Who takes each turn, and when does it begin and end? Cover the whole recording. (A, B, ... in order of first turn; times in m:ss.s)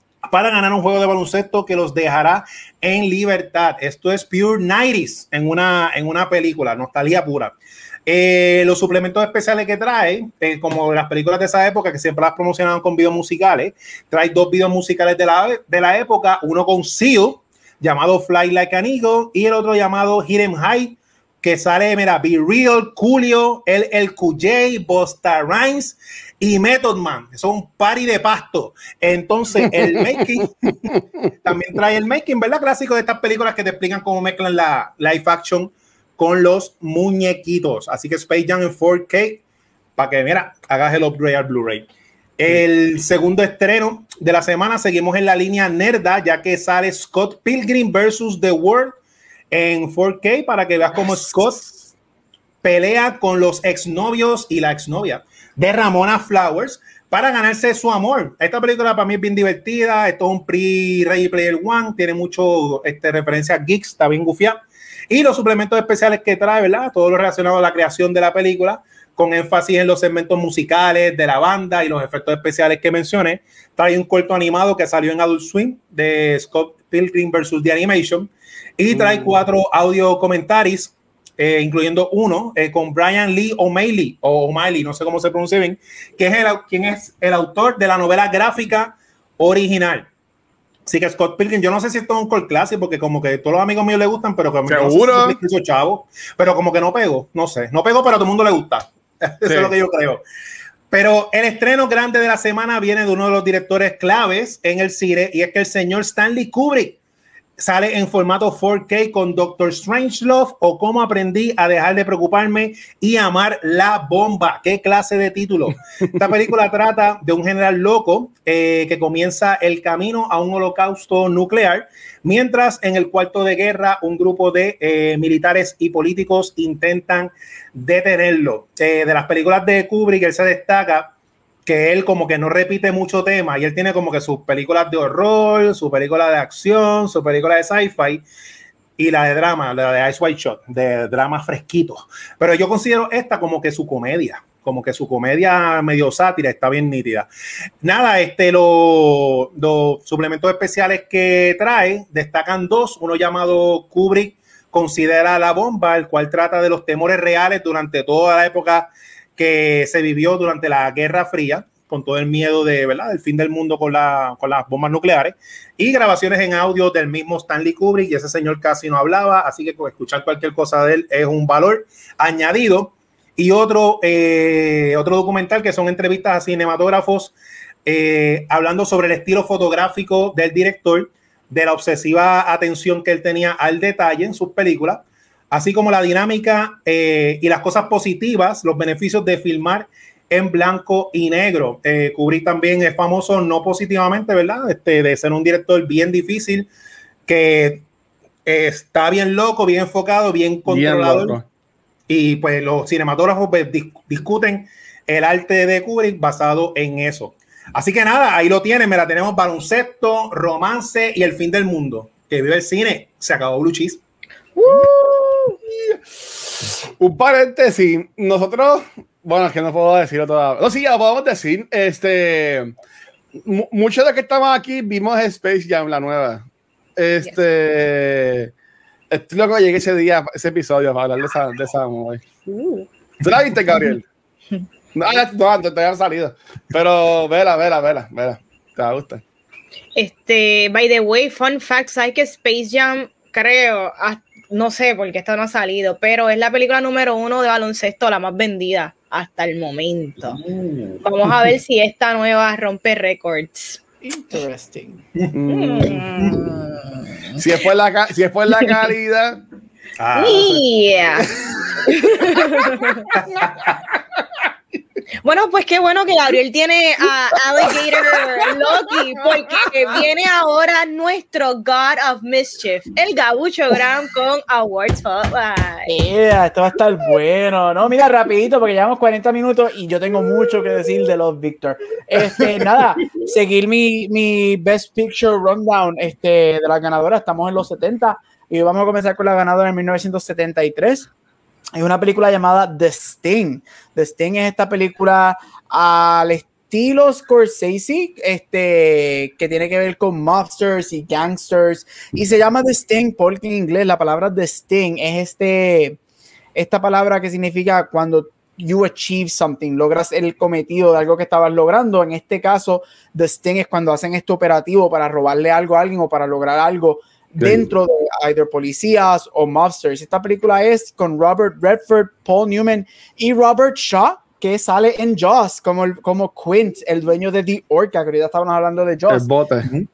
0:00.2-0:07.5 A
0:08.1-0:30.9 A
0:31.4-0:39.4 A
0:40.0-0:49.0 A
0:49.5-0:51.9 A
0:52.6-1:30.1 A
1:18.9-1:19.3 B
1:30.8-1:40.2 A
1:34.7-1:35.4 B
1:39.4-1:39.7 B
1:40.9-1:47.0 A
1:47.6-2:11.1 A
2:11.6-2:18.2 A
2:19.0-2:27.3 A
2:27.8-2:57.3 A
2:57.8-3:16.7 A
3:17.3-3:17.8 A
3:18.4-3:21.4 A
3:20.7-3:21.4 B
3:22.1-3:34.0 A
3:34.6-3:35.5 C
3:35.7-3:36.0 B
3:36.6-3:42.7 B
3:43.4-3:46.4 B
3:47.0-3:48.5 B
3:49.1-3:52.2 B
3:52.5-3:52.9 C
3:53.2-3:54.0 B
3:54.9-3:59.2 B
3:59.9-4:10.4 C
4:10.2-4:11.0 A
4:11.0-4:13.8 C
4:14.0-4:15.0 D
4:15.2-4:16.4 A
4:15.3-4:16.0 B
4:15.5-4:17.4 C
4:17.4-4:19.4 B
4:20.0-4:20.6 A
4:20.2-4:21.3 C
4:21.4-4:21.8 B
4:21.9-4:23.1 C
4:23.1-4:23.8 A
4:25.2-4:36.0 C
4:35.9-4:51.1 D
4:51.7-5:06.0 D
5:06.5-5:29.3 D
5:29.1-5:29.7 B